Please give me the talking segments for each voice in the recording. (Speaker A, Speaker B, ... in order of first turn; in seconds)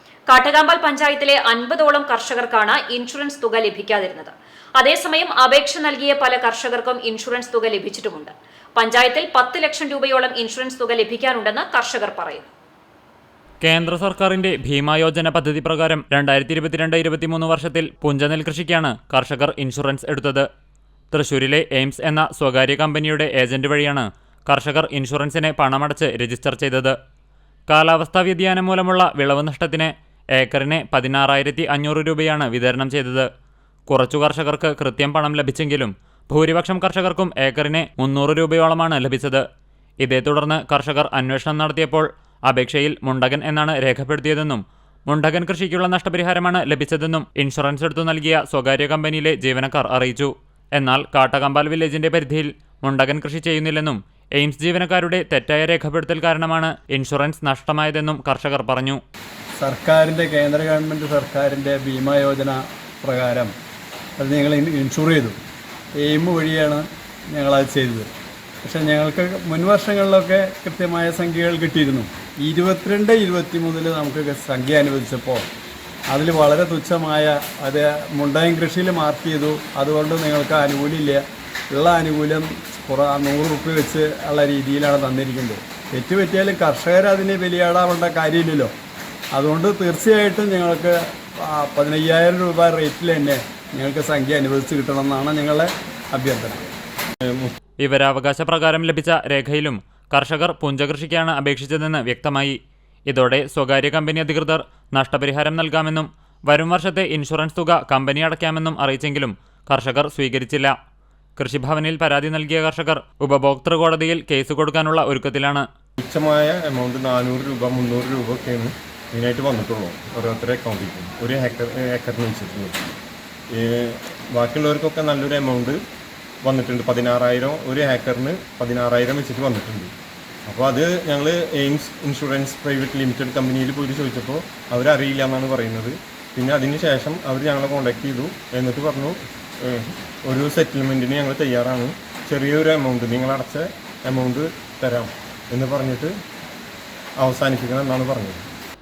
Speaker A: 0.3-12.5
Speaker B: 13.6-20.5, 21.1-27.0, 27.7-33.3, 33.9-39.4, 40.0-59.0, 97.8-110.7, 111.4-115.7
Speaker C: 59.6-63.5, 64.2-65.4, 66.0-68.1, 68.6-75.5, 76.1-88.7, 89.3-96.7
Speaker D: 97.3-97.5, 116.0-122.8, 123.5-125.8, 126.4-129.9, 130.5-146.1, 147.2-148.4